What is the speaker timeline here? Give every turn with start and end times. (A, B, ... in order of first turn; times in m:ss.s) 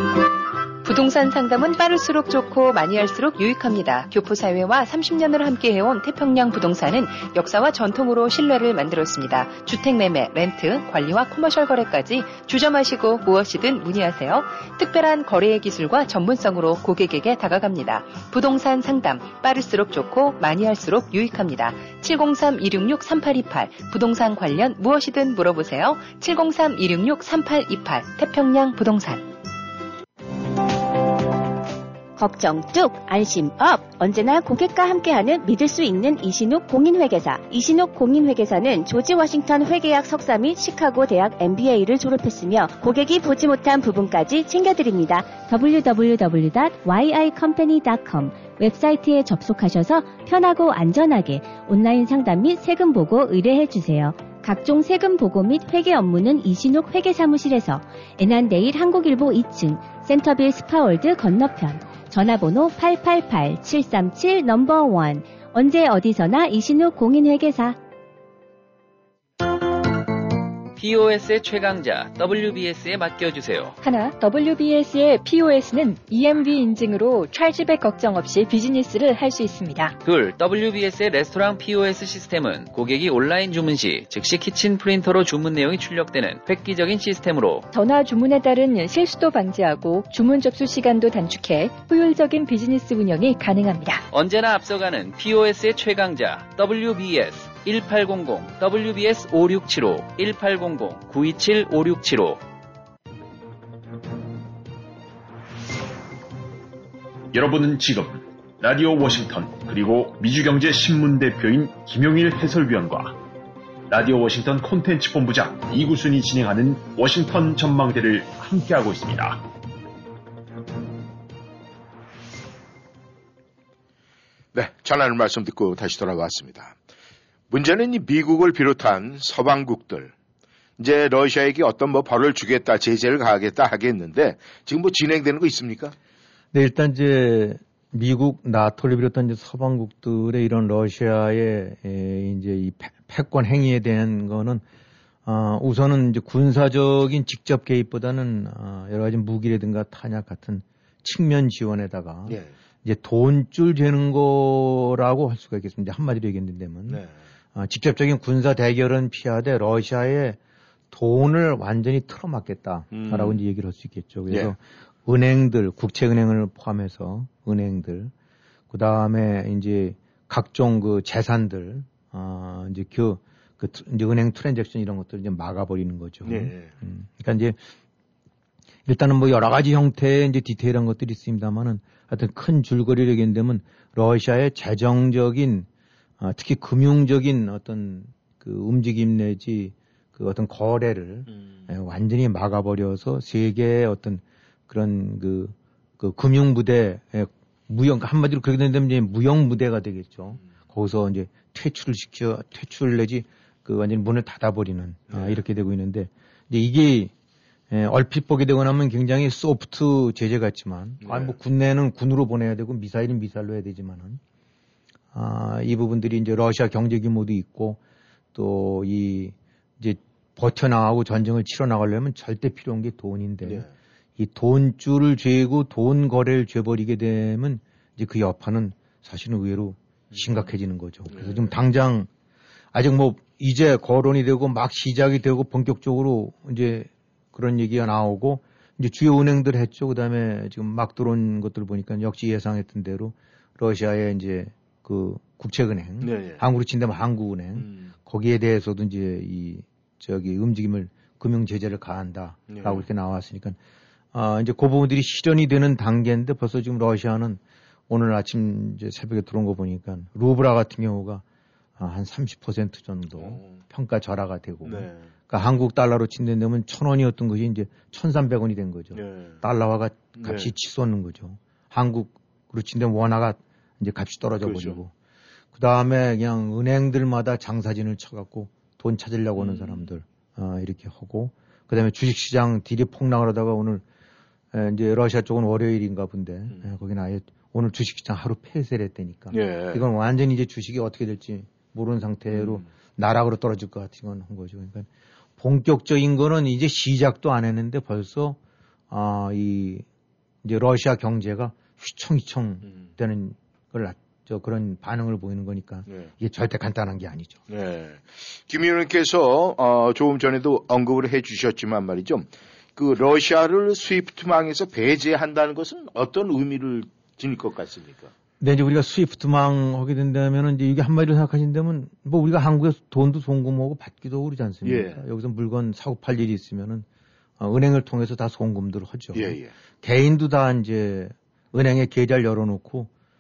0:00.8-0:29.3 A
0:32.2-1:07.8 B
1:10.8-1:13.8 C
1:13.8-1:19.9 D
1:20.0-1:27.7 C
1:27.7-1:34.0 D
1:34.1-1:42.4 C
1:47.3-1:53.2 E
1:53.9-1:59.5 E
2:04.5-2:06.8 F
2:07.5-2:10.1 F
2:10.8-2:15.9 F
2:16.5-2:24.6 G
2:25.2-2:37.0 G
2:32.3-2:32.5 F
2:36.9-2:37.1 F
2:37.5-2:40.4 G
2:40.9-2:48.1 G
2:42.9-2:43.4 F
2:44.3-2:44.6 F
2:48.7-2:57.6 G
2:56.2-2:56.7 F
2:58.9-3:05.7 G
3:06.2-3:27.1 G
3:11.3-3:11.7 F
3:25.1-3:25.4 F
3:27.7-3:34.2 G
3:31.0-3:31.4 F
3:35.1-3:37.8 G
3:38.4-3:43.6 G
3:43.4-3:43.7 F
3:44.2-3:52.1 G
3:50.1-3:50.6 F
3:51.1-3:51.6 F
3:52.7-4:13.6 G
4:06.0-4:06.4 F
4:07.6-4:07.9 F
4:12.5-4:12.9 F
4:14.1-4:21.2 G
4:21.8-4:34.9 G
4:23.1-4:23.6 F
4:24.6-4:25.1 F
4:28.9-4:29.4 F
4:30.2-4:30.5 F
4:34.4-4:34.8 F
4:35.5-4:43.8 G
4:39.4-4:39.9 F
4:44.5-4:54.9 G
4:49.3-4:49.9 F
4:52.3-4:52.6 F
4:55.4-4:58.4 G
4:58.9-4:59.8 G
5:00.4-5:07.4 G
5:05.9-5:06.1 F
5:07.5-5:18.1 F
5:18.4-5:26.9 G
5:24.6-5:25.0 F
5:27.4-5:32.9 G
5:29.1-5:29.5 F